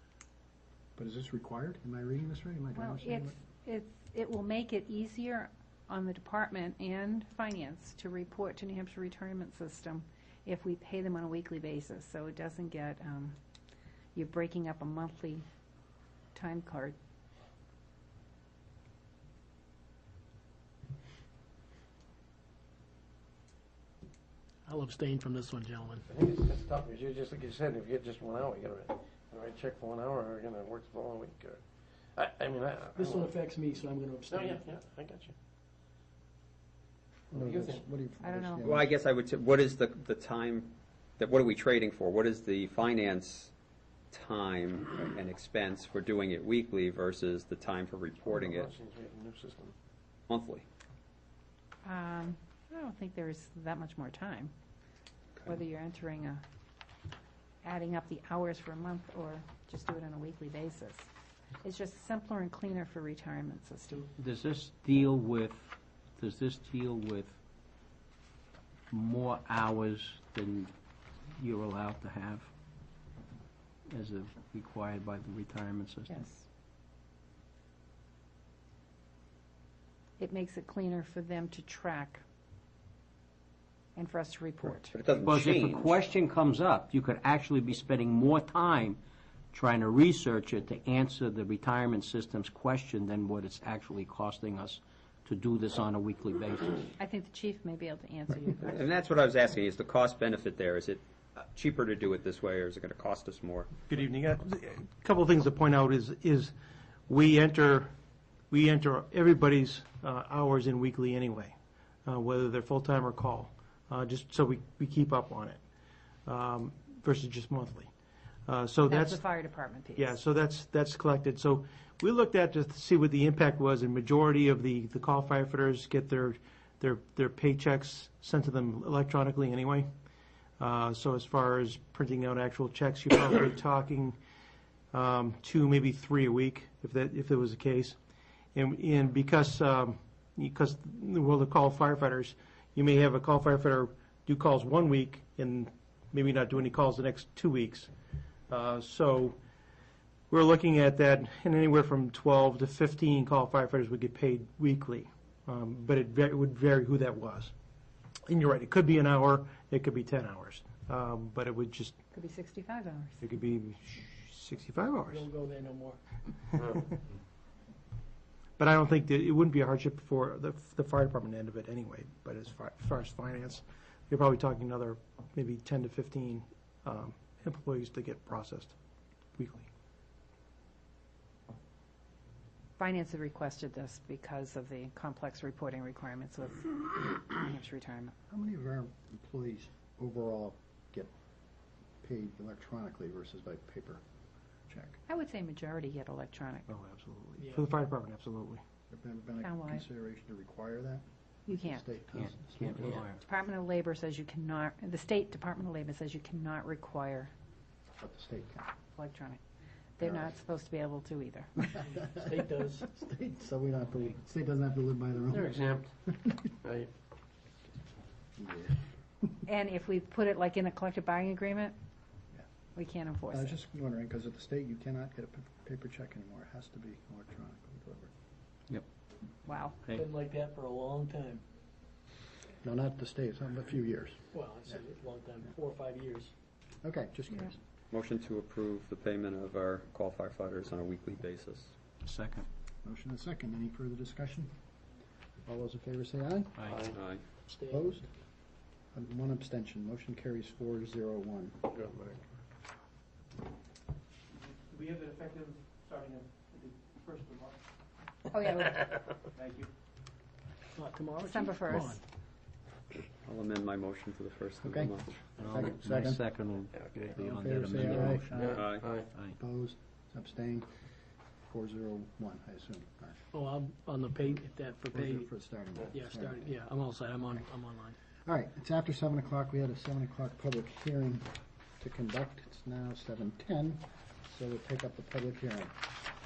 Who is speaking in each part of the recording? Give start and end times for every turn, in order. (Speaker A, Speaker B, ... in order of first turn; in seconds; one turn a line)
Speaker A: 1.0-3.4
Speaker B: 2.7-13.4
Speaker B: 14.2-15.4
Speaker B: 16.4-17.0
Speaker C: 24.7-26.1
Speaker D: 26.1-31.6
Speaker D: 32.1-33.4
Speaker C: 33.0-34.7
Speaker D: 34.3-35.4
Speaker A: 37.3-38.9
Speaker D: 37.3-37.8
Speaker B: 38.2-38.8
Speaker E: 38.6-43.5
Speaker E: 44.1-48.7
Speaker D: 48.3-49.8
Speaker E: 50.3-50.6
Speaker B: 51.9-54.5
Speaker B: 55.4-56.4
Speaker B: 57.6-61.1
Speaker B: 61.6-64.1
Speaker F: 64.2-67.4
Speaker F: 68.9-70.7
Speaker F: 71.4-72.5
Speaker F: 73.9-76.2
Speaker B: 76.1-76.5
Speaker B: 80.2-82.2
Speaker B: 84.0-85.0
Speaker E: 84.9-86.1
Speaker F: 85.2-89.0
Speaker F: 89.5-96.9
Speaker B: 97.0-98.9
Speaker E: 98.7-103.7
Speaker G: 103.9-106.5
Speaker G: 107.1-107.9
Speaker G: 108.5-115.6
Speaker G: 116.3-117.9
Speaker G: 118.5-119.2
Speaker B: 118.9-120.2
Speaker G: 120.0-129.9
Speaker G: 130.6-134.2
Speaker G: 134.9-138.0
Speaker G: 138.6-147.9
Speaker G: 148.5-149.4
Speaker G: 150.3-157.5
Speaker G: 158.3-161.9
Speaker B: 162.1-163.2
Speaker G: 163.2-165.3
Speaker C: 165.1-166.0
Speaker G: 168.6-178.8
Speaker G: 179.4-179.7
Speaker B: 182.8-188.1
Speaker A: 188.3-191.1
Speaker A: 192.0-194.0
Speaker A: 194.7-195.0
Speaker B: 195.1-196.7
Speaker G: 196.7-198.6
Speaker C: 197.4-197.7
Speaker A: 198.9-203.0
Speaker B: 199.4-199.8
Speaker B: 201.5-201.8
Speaker F: 202.2-203.2
Speaker B: 203.2-207.3
Speaker A: 208.0-208.7
Speaker B: 209.0-209.4
Speaker B: 210.0-211.7
Speaker A: 210.0-210.3
Speaker A: 211.6-215.6
Speaker C: 212.0-212.9
Speaker D: 215.3-215.9
Speaker D: 216.6-216.9
Speaker A: 218.4-219.4
Speaker B: 219.5-221.8
Speaker B: 222.8-223.5
Speaker A: 223.3-228.1
Speaker B: 229.4-229.8
Speaker C: 229.9-231.4
Speaker A: 232.6-234.2
Speaker C: 234.3-236.3
Speaker A: 236.8-237.6
Speaker E: 237.9-241.7
Speaker F: 242.0-242.4
Speaker A: 242.8-244.5
Speaker A: 245.5-246.6
Speaker D: 246.6-247.0
Speaker E: 246.9-247.2
Speaker C: 247.5-248.0
Speaker A: 247.7-248.1
Speaker A: 248.9-251.7
Speaker D: 251.7-252.2
Speaker G: 254.3-257.6
Speaker B: 258.3-259.0
Speaker G: 259.3-259.7
Speaker C: 260.8-262.0
Speaker B: 261.2-262.0
Speaker E: 263.1-265.2
Speaker A: 264.6-266.2
Speaker F: 265.4-268.5
Speaker D: 266.7-267.1
Speaker A: 267.1-268.6
Speaker D: 268.3-269.1
Speaker E: 268.5-268.9
Speaker A: 269.4-270.7
Speaker A: 271.4-273.2
Speaker C: 273.3-275.3
Speaker A: 274.9-276.5
Speaker C: 275.9-278.0
Speaker A: 278.2-281.3
Speaker A: 281.8-285.8